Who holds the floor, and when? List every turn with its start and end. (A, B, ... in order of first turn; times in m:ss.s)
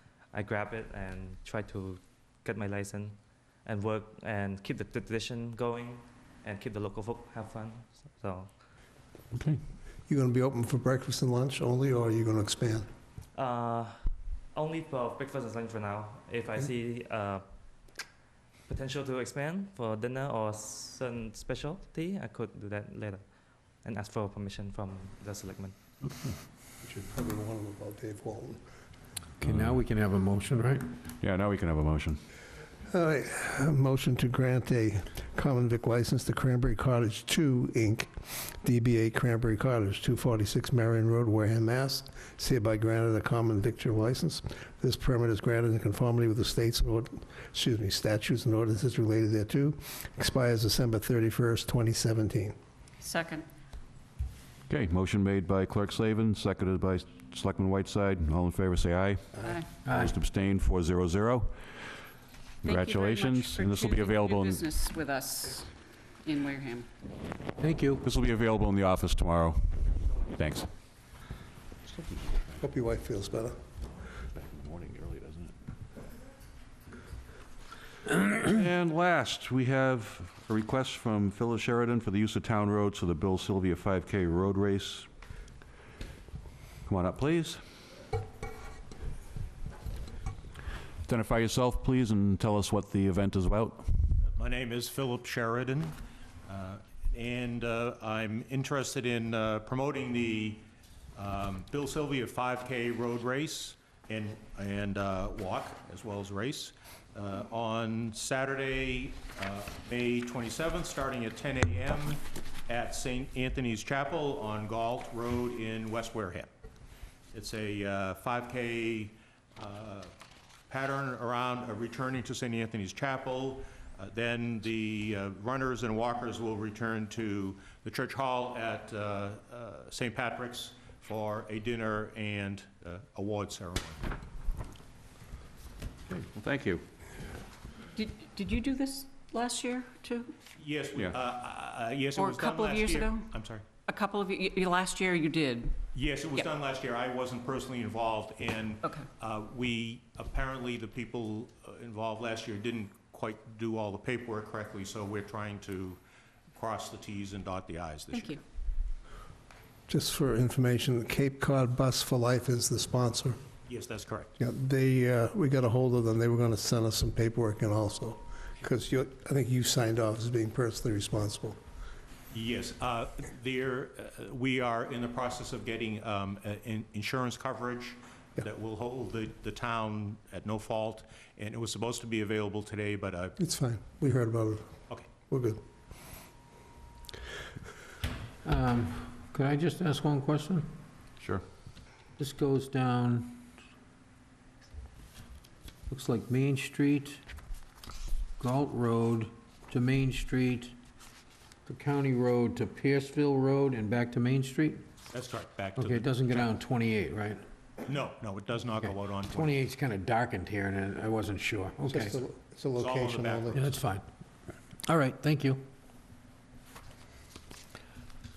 0:00.3-0:08.5 A
0:09.3-0:09.6 B
0:10.1-0:12.9 C
0:13.4-0:17.5 A
0:18.7-0:23.2 A
0:23.8-0:25.8 A
0:26.8-0:28.6 C
0:29.4-0:29.8 B
0:29.4-0:30.9 D
0:31.2-0:32.2 B
0:32.9-0:52.6 C
0:53.0-0:53.5 E
0:54.7-1:01.6 B
1:02.6-1:04.7 B
1:02.6-1:05.7 E
1:06.2-1:06.9 E
1:07.6-1:08.0 D
1:08.0-1:10.7 B
1:12.6-1:13.6 C
1:14.3-1:15.5 B
1:18.1-1:25.1 B
1:26.9-1:27.6 B
1:31.1-1:34.1 B
1:34.2-1:40.6 F
1:41.2-1:56.5 F
1:57.3-2:00.1 F
2:00.7-2:14.1 F
2:16.1-2:16.8 B
2:17.9-2:20.3 E
2:20.6-2:23.7 F
2:22.2-2:23.3 E
2:23.8-2:25.8 E
2:25.9-2:36.0 F
2:36.5-2:38.4 F
2:39.9-2:43.4 C
2:43.7-2:44.3 F
2:44.4-2:51.6 C
2:52.3-3:03.4 F
3:03.4-3:04.7 C
3:05.3-3:05.6 C
3:08.4-3:10.7 D
3:12.2-3:13.4 D
3:15.9-3:17.2 D
3:18.4-3:20.7 D
3:21.7-3:24.8 D
3:25.1-3:26.5 F
3:25.8-3:27.4 D
3:27.8-3:29.6 F
3:29.3-3:32.2 D
3:31.8-3:33.6 C
3:32.8-3:33.8 F
3:33.5-3:34.0 D
3:34.8-3:35.6 D